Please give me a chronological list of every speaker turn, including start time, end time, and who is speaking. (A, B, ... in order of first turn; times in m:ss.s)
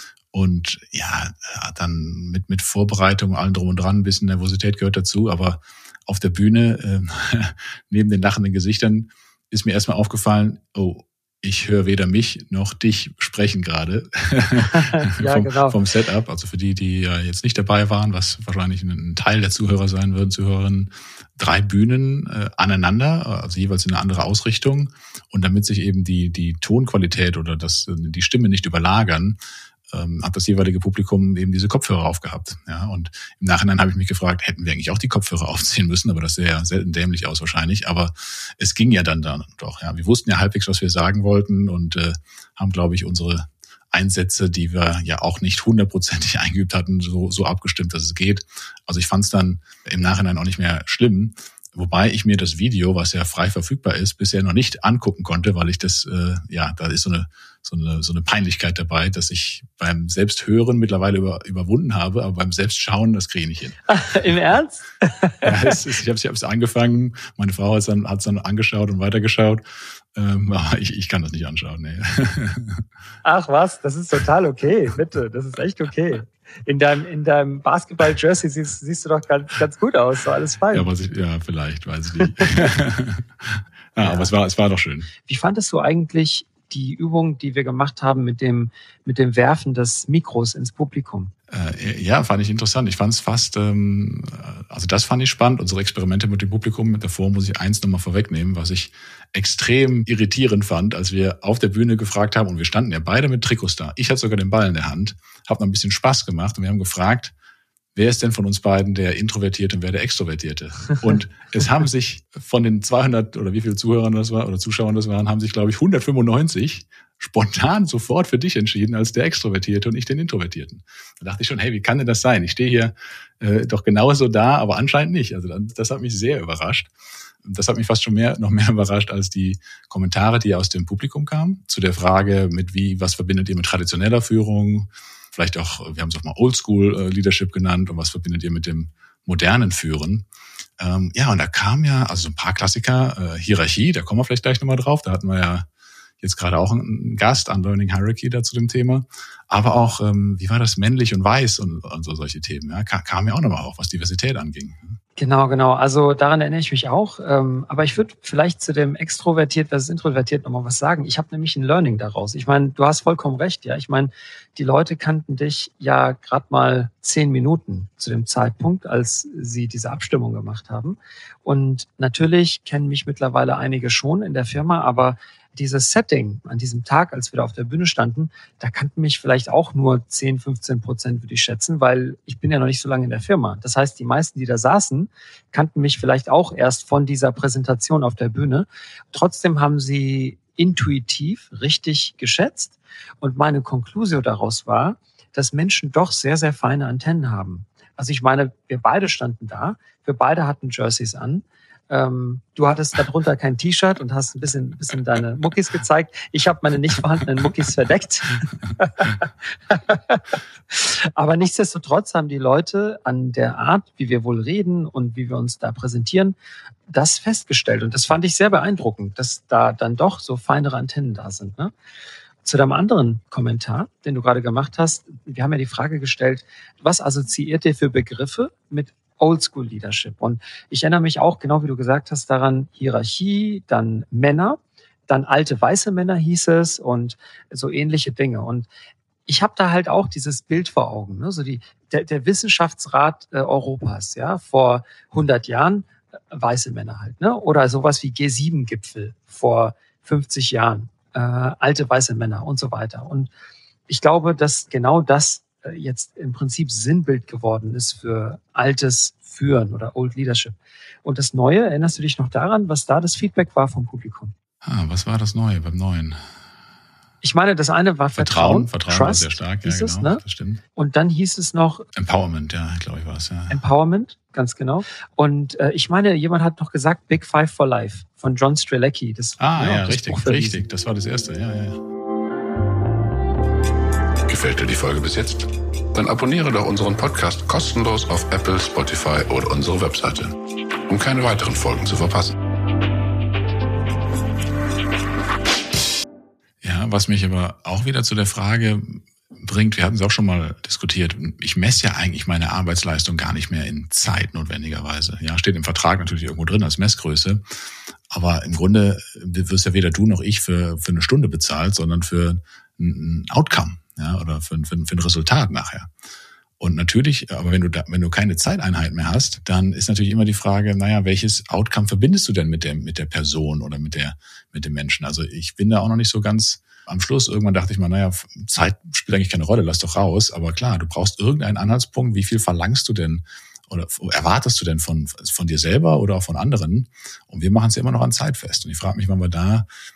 0:00.3-1:03.8 A
0:14.7-0:15.8 B
1:03.9-1:05.7 B
1:05.4-1:09.6 A
1:10.1-1:12.8 A
1:13.2-1:20.9 B
1:20.7-1:25.1 A
1:22.2-1:22.6 B
1:24.0-1:24.3 B
1:25.2-1:31.3 B
1:31.5-1:47.3 A
1:47.9-2:06.9 A
2:07.4-2:20.3 A
2:20.8-2:25.7 A
2:26.2-2:35.0 A
2:35.2-3:36.4 B
3:36.9-3:41.7 B
3:42.4-3:58.7 B
3:59.3-4:13.3 B
4:13.9-4:24.3 B
4:24.6-4:26.2 A
4:27.2-4:30.2 B
4:28.2-4:30.6 A
4:30.7-4:31.8 B
4:31.9-4:33.6 A
4:33.5-4:40.7 B
4:39.4-4:41.8 A
4:44.3-4:50.3 C
4:50.9-4:52.3 C
4:56.6-5:07.4 A
5:08.1-5:15.9 A
5:16.6-5:39.6 A